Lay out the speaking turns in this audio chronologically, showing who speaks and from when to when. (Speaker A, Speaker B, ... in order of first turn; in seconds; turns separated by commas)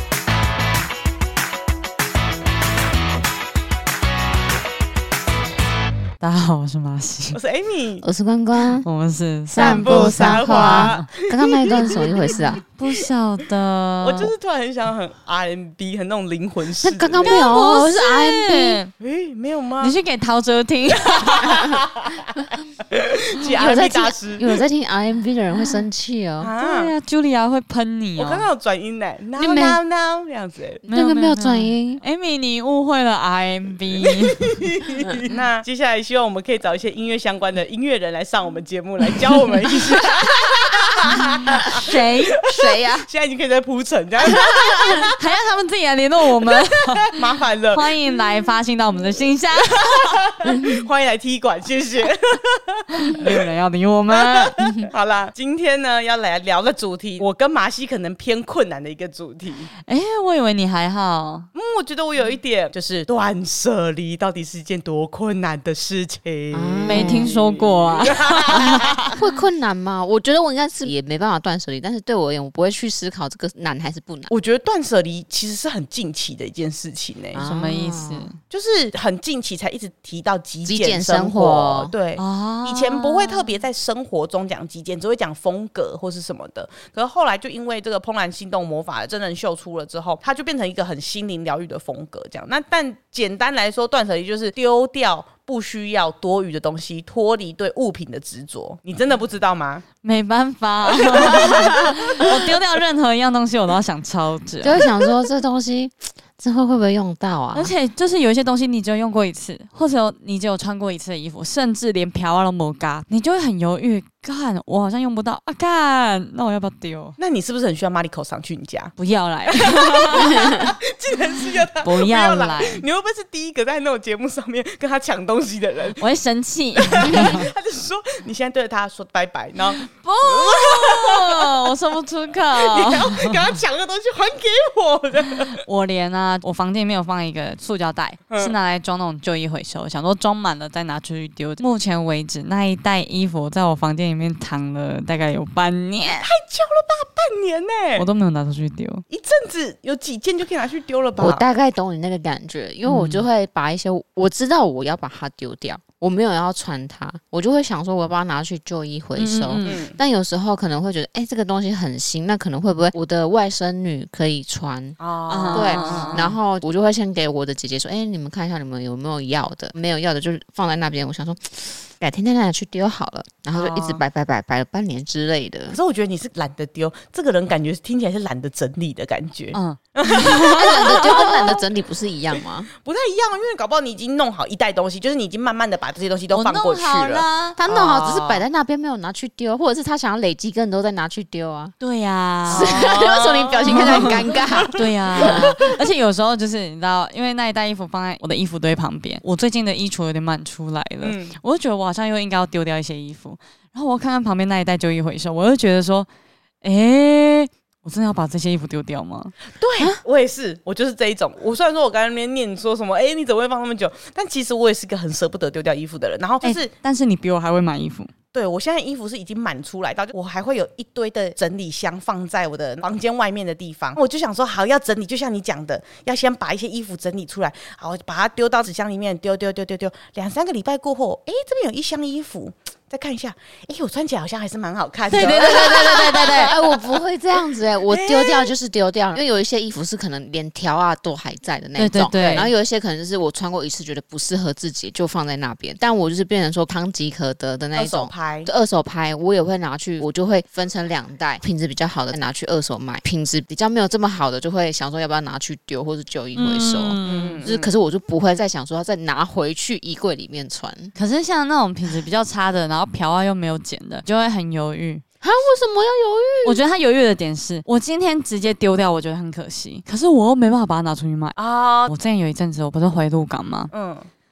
Speaker A: 6.2-7.4, Speaker B: 7.3-8.0, Speaker C: 8.0-8.8, Speaker A: 8.8-11.1, Speaker C: 9.5-12.6, Speaker B: 9.5-12.6, Speaker A: 12.6-14.3, Speaker B: 14.0-17.7, Speaker C: 16.8-18.8, Speaker A: 17.2-18.9, Speaker B: 19.0-19.9, Speaker A: 19.8-21.7, Speaker B: 21.1-24.6, Speaker C: 21.5-21.8, Speaker C: 23.4-26.5, Speaker B: 26.4-26.9, Speaker A: 26.6-28.4, Speaker B: 28.2-30.8, Speaker C: 29.4-29.8, Speaker C: 30.9-32.0, Speaker A: 30.9-34.6, Speaker B: 34.0-41.8, Speaker C: 40.2-41.8, Speaker A: 41.7-42.4, Speaker B: 42.4-45.2, Speaker C: 42.5-43.1, Speaker C: 44.3-45.0, Speaker A: 45.1-47.2, Speaker B: 46.5-47.9, Speaker A: 47.7-50.2, Speaker B: 49.6-53.4, Speaker C: 50.4-50.8, Speaker A: 52.9-54.5, Speaker B: 54.1-59.7, Speaker C: 54.6-54.9, Speaker A: 59.9-61.5, Speaker B: 61.5-69.1, Speaker C: 66.5-67.3, Speaker A: 66.8-69.0, Speaker C: 69.2-74.3, Speaker B: 74.3-77.4, Speaker C: 77.3-78.3, Speaker A: 77.4-78.3, Speaker B: 78.5-99.8, Speaker C: 80.6-81.9, Speaker A: 82.2-83.5, Speaker A: 100.0-104.8, Speaker B: 101.0-102.3, Speaker C: 101.3-101.8, Speaker C: 104.6-107.7, Speaker A: 107.5-117.2, Speaker B: 117.2-119.0, Speaker A: 119.0-120.6, Speaker B: 119.5-126.0, Speaker C: 120.2-120.6, Speaker A: 121.8-122.8, Speaker A: 126.0-127.5, Speaker B: 126.8-131.7, Speaker C: 127.0-127.3, Speaker A: 129.8-133.4, Speaker B: 132.5-135.6, Speaker A: 135.6-146.3, Speaker B: 146.2-148.1, Speaker A: 147.9-149.0, Speaker B: 149.1-151.4, Speaker C: 151.2-165.0, Speaker A: 152.8-153.2, Speaker A: 159.2-159.8, Speaker B: 159.6-160.0, Speaker B: 165.0-166.3, Speaker A: 165.3-166.3, Speaker C: 165.5-175.8, Speaker B: 173.6-174.0, Speaker B: 175.7-181.6, Speaker A: 179.5-181.4, Speaker C: 180.4-182.7, Speaker B: 182.8-188.4, Speaker A: 186.3-187.6, Speaker C: 187.6-191.7, Speaker A: 191.8-192.9, Speaker B: 192.5-195.7, Speaker C: 192.5-195.7, Speaker A: 193.7-194.2, Speaker A: 194.7-206.1, Speaker B: 201.0-201.4, Speaker A: 206.6-209.3, Speaker B: 209.6-216.7, Speaker A: 216.4-218.1, Speaker B: 218.3-237.0, Speaker A: 235.1-236.5, Speaker C: 235.2-260.9, Speaker B: 237.8-238.5, Speaker A: 241.8-242.5, Speaker B: 247.7-248.5, Speaker A: 256.4-257.4, Speaker B: 257.0-257.7, Speaker A: 260.9-265.0, Speaker C: 265.2-266.6, Speaker A: 266.4-273.7, Speaker B: 271.4-271.9, Speaker B: 273.7-274.1